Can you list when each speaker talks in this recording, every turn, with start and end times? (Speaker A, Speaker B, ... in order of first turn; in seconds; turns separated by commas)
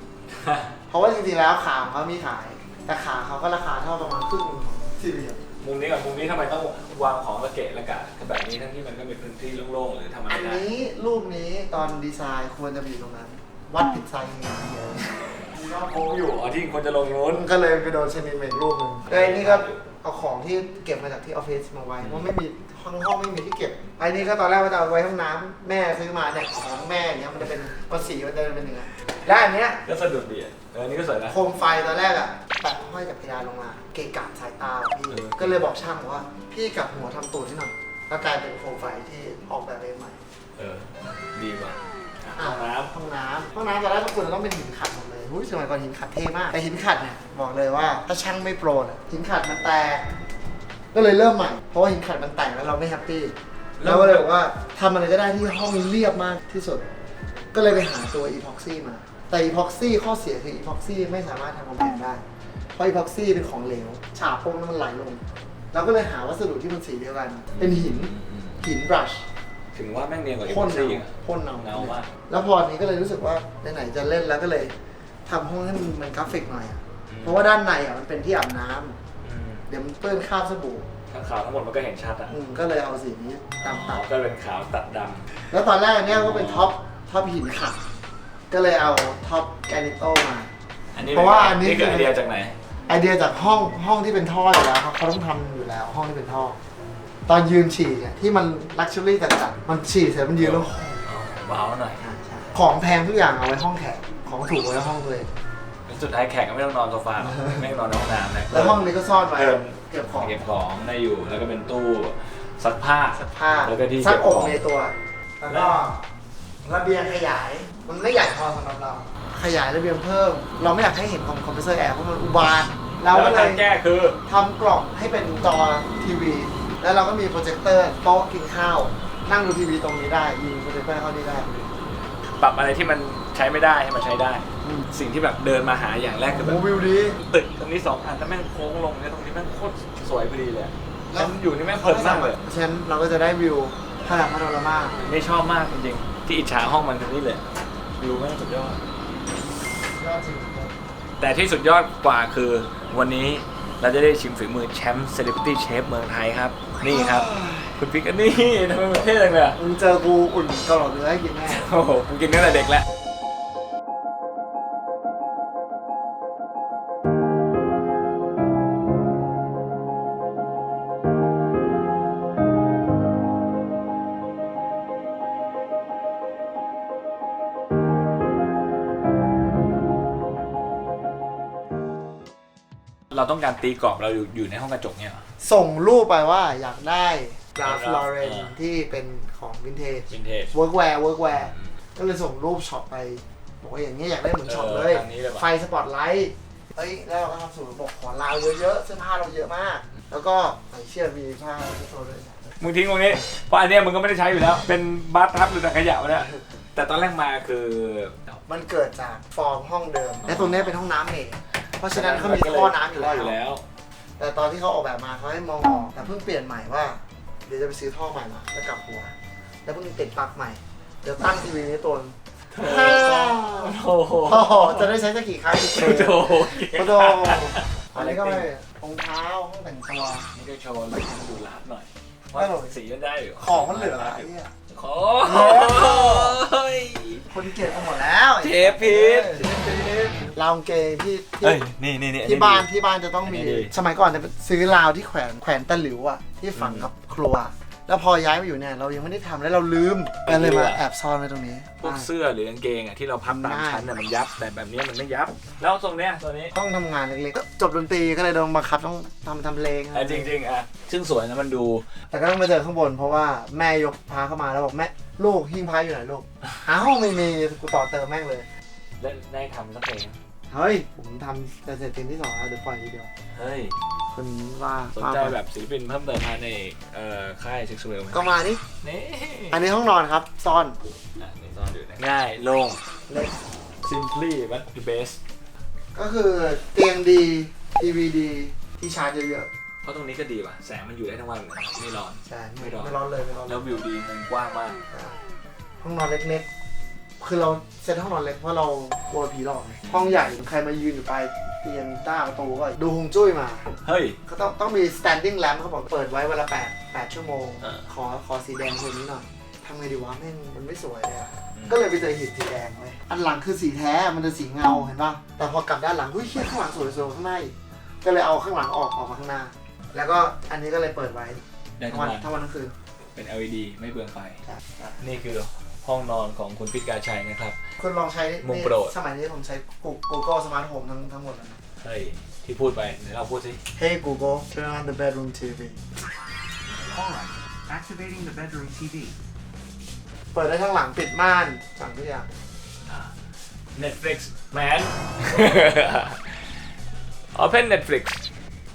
Speaker A: 0.3-0.7, Speaker B: 0.9-5.4, Speaker A: 5.6-10.7, Speaker B: 10.3-15.3, Speaker A: 15.5-17.4, Speaker B: 17.3-29.8, Speaker A: 19.1-19.9, Speaker A: 29.8-31.4, Speaker B: 31.3-40.2, Speaker A: 35.1-35.6, Speaker A: 40.6-42.9, Speaker B: 42.4-50.1, Speaker B: 50.9-56.9, Speaker A: 53.8-54.3, Speaker B: 57.5-62.2, Speaker B: 62.8-69.2, Speaker A: 67.5-68.6, Speaker A: 69.8-72.1, Speaker B: 70.5-74.7, Speaker B: 75.2-79.0, Speaker A: 77.1-77.4, Speaker A: 79.2-79.7, Speaker B: 79.7-80.9, Speaker A: 81.1-82.4, Speaker B: 82.3-84.0, Speaker A: 83.6-85.3, Speaker B: 85.5-87.8, Speaker A: 86.1-86.7, Speaker B: 88.5-90.5, Speaker A: 90.9-92.5, Speaker B: 91.1-92.1, Speaker B: 92.9-96.6, Speaker B: 97.3-101.0, Speaker A: 100.4-102.0, Speaker B: 102.0-105.3, Speaker A: 105.9-108.8, Speaker B: 107.2-107.6, Speaker B: 108.5-110.5, Speaker A: 109.3-114.6, Speaker B: 113.1-116.0, Speaker A: 115.5-115.8, Speaker B: 116.6-123.6, Speaker A: 123.1-124.2, Speaker B: 124.2-131.5, Speaker A: 132.2-136.6, Speaker B: 134.6-134.9, Speaker B: 136.3-137.2, Speaker A: 137.2-142.4, Speaker B: 141.1-145.0, Speaker A: 145.0-147.4, Speaker A: 148.0-148.8, Speaker B: 150.0-150.8, Speaker A: 151.2-159.6, Speaker B: 156.9-157.8, Speaker B: 159.6-161.7, Speaker A: 161.5-162.8, Speaker A: 183.1-185.2, Speaker B: 185.4-202.6, Speaker A: 187.6-188.6, Speaker A: 190.1-190.5, Speaker A: 191.3-191.7, Speaker A: 194.5-195.5, Speaker A: 202.6-208.4, Speaker B: 206.1-206.4, Speaker B: 208.5-213.4, Speaker A: 210.2-210.7, Speaker A: 211.9-213.6, Speaker B: 214.2-219.1, Speaker B: 219.6-230.3, Speaker A: 222.5-224.9, Speaker A: 225.5-228.5, Speaker A: 230.3-237.3, Speaker B: 232.3-232.8, Speaker B: 233.4-234.5, Speaker B: 235.2-236.4, Speaker B: 237.3-241.6, Speaker A: 238.4-240.2, Speaker A: 241.4-242.7, Speaker B: 242.2-252.1, Speaker A: 243.2-243.7, Speaker A: 246.6-246.9, Speaker A: 250.2-250.8, Speaker A: 251.8-256.5, Speaker B: 253.2-253.9, Speaker B: 256.5-260.3, Speaker A: 259.9-261.9, Speaker B: 262.1-268.5, Speaker A: 269.0-270.2, Speaker B: 270.5-273.1, Speaker A: 273.3-273.8, Speaker B: 274.1-275.4, Speaker A: 274.9-279.6, Speaker B: 278.1-278.6, Speaker B: 279.5-280.8, Speaker A: 281.2-282.8, Speaker B: 283.1-283.4, Speaker A: 283.8-285.2, Speaker B: 285.9-289.5, Speaker A: 289.8-293.0, Speaker B: 292.2-293.7, Speaker A: 293.5-294.8, Speaker B: 294.9-295.2, Speaker B: 295.8-296.5, Speaker B: 297.2-303.7, Speaker A: 299.9-300.2, Speaker A: 303.8-304.2, Speaker B: 304.2-322.7, Speaker A: 321.8-322.3, Speaker A: 323.1-324.4, Speaker B: 324.5-325.0, Speaker A: 325.0-327.6, Speaker B: 327.8-331.6, Speaker A: 328.4-328.9, Speaker A: 331.8-333.6, Speaker B: 333.8-335.8, Speaker C: 336.8-339.1, Speaker B: 340.3-342.3, Speaker A: 342.9-343.1, Speaker A: 343.8-346.2, Speaker A: 347.4-348.2